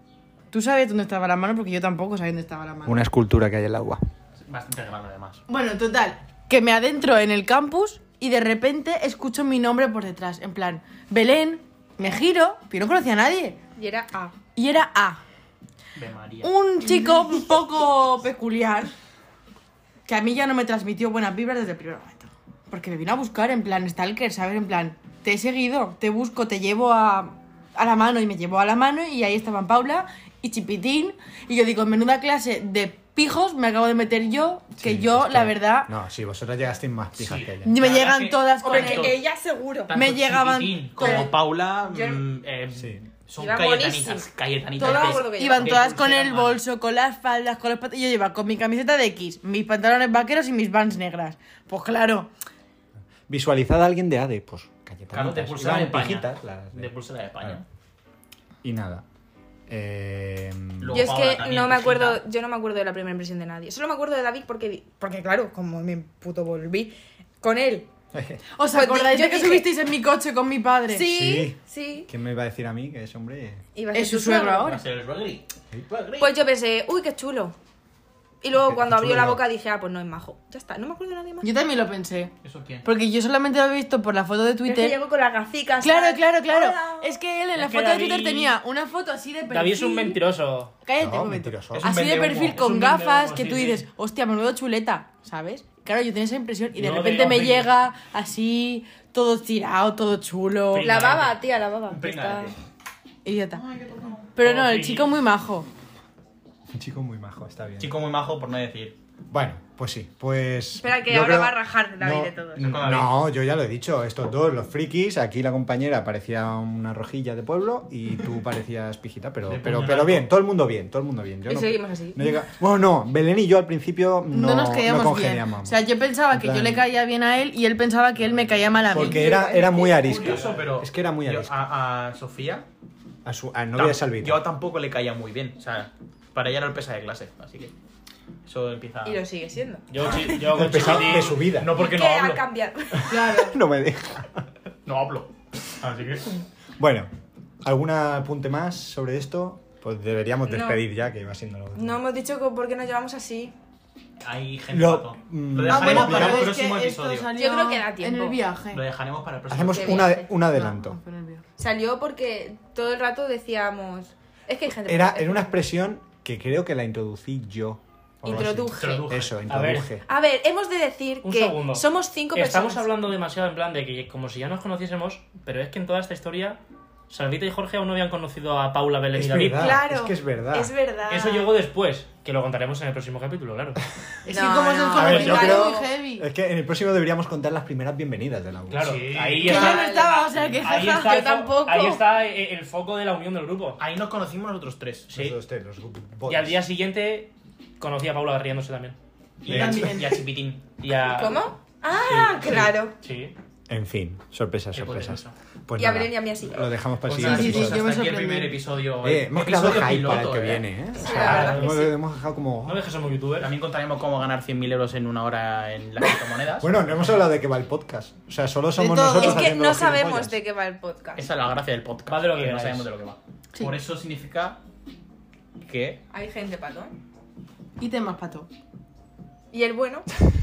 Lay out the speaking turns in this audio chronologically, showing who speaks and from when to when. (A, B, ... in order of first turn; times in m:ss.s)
0:00.5-0:03.0 A
0:02.9-0:04.0 B
0:04.4-0:05.4 C
0:05.5-0:13.6 A
0:13.8-0:14.4 D
0:14.6-0:15.2 A
0:16.0-0:16.5 C
0:16.4-0:18.9 A
0:20.1-0:35.9 A
0:34.8-0:37.8 B
0:37.2-0:39.2 C
0:37.6-0:39.2 A
0:38.6-0:40.0 D
0:39.9-0:46.6 C
0:39.9-0:41.3 A
0:41.0-0:42.2 D
0:42.7-0:43.1 B
0:43.4-0:45.8 D
0:44.8-0:52.3 A
0:53.3-0:56.9 B
0:55.1-0:57.6 C
0:58.6-0:59.0 B
0:59.7-1:01.0 B
1:00.8-1:02.2 C
1:00.9-1:07.9 D
1:08.1-1:08.4 B
1:08.6-1:11.0 A
1:08.7-1:09.7 D
1:10.9-1:12.1 D
1:11.1-1:13.6 B
1:13.8-1:14.7 D
1:13.9-1:14.8 A
1:14.6-1:16.4 C
1:16.2-1:17.6 D
1:18.4-1:21.5 D
1:18.6-1:19.4 B
1:21.4-1:22.3 A
1:22.4-1:22.9 C
1:22.8-1:25.0 A
1:24.6-1:27.2 D
1:25.8-1:30.2 A
1:27.6-1:28.6 E
1:29.5-1:30.7 E
1:30.8-1:40.9 A
1:31.0-1:31.9 B
1:31.7-1:32.8 C
1:32.5-1:33.8 E
1:36.8-1:37.7 E
1:40.7-1:41.4 E
1:40.8-1:42.5 D
1:41.9-1:42.6 C
1:43.2-1:43.6 A
1:43.5-1:44.3 C
1:44.4-1:45.7 A
1:44.4-1:45.1 E
1:46.7-1:47.9 B
1:47.8-1:49.0 C
1:49.3-2:05.8 B
1:50.8-1:52.8 D
1:52.6-1:53.1 C
1:59.5-2:00.3 C
2:01.5-2:02.2 D
2:04.3-2:10.1 A
2:06.3-2:06.8 B
2:08.9-2:12.7 C
2:08.9-2:11.6 B
2:10.2-2:10.6 E
2:13.2-2:14.4 B
2:13.8-2:17.7 C
2:18.5-2:19.2 C
2:19.0-2:20.5 D
2:19.9-2:21.6 E
2:20.4-2:21.8 B
2:20.8-2:22.5 C
2:21.7-2:23.6 D
2:23.1-2:24.4 B
2:24.8-2:26.4 C
2:26.8-2:27.1 B
2:27.6-2:32.0 B
2:30.5-2:30.8 D
2:31.8-2:33.5 D
2:34.2-2:37.3 C
2:34.7-2:36.6 B
2:35.7-2:38.8 A
2:37.3-2:38.4 D
2:38.7-2:40.2 C
2:39.5-2:41.0 B
2:39.5-2:40.3 D
2:40.4-2:41.4 A
2:41.6-2:45.6 D
2:44.9-2:50.0 B
2:48.2-2:49.1 D
2:48.7-2:49.8 C
2:49.5-2:49.9 E
2:50.0-2:52.9 D
2:51.2-2:59.8 E
2:59.1-3:00.7 B
2:59.6-3:01.5 D
3:01.1-3:03.8 E
3:04.3-3:06.3 A
3:04.3-3:05.9 D
3:04.9-3:09.0 B
3:08.7-3:09.8 E
3:08.8-3:09.9 C
3:09.4-3:12.0 A
3:09.5-3:11.9 D
3:10.6-3:13.8 E
3:13.8-3:15.1 C
3:15.1-3:16.6 B
3:16.3-3:19.0 E
3:19.4-3:20.7 C
3:19.5-3:20.0 B
3:19.5-3:20.1 A
3:20.8-3:21.4 E
3:21.1-3:22.9 D
3:21.9-3:22.8 C
3:23.0-3:23.4 E
3:23.7-3:27.8 B
3:24.8-3:25.3 C
3:25.8-3:26.7 D
3:27.0-3:30.7 C
3:27.2-3:28.6 A
3:29.0-3:32.8 B
3:31.0-3:31.9 D
3:31.0-3:31.9 E
3:32.6-3:33.5 E
3:33.4-3:36.7 C
3:36.6-3:40.4 B
3:38.8-3:39.6 A
3:39.2-3:41.3 D
3:41.2-3:44.6 C
3:42.1-3:42.9 E
3:45.6-3:46.0 C
3:46.1-3:47.0 D
3:47.8-3:48.5 A
3:49.5-3:50.1 D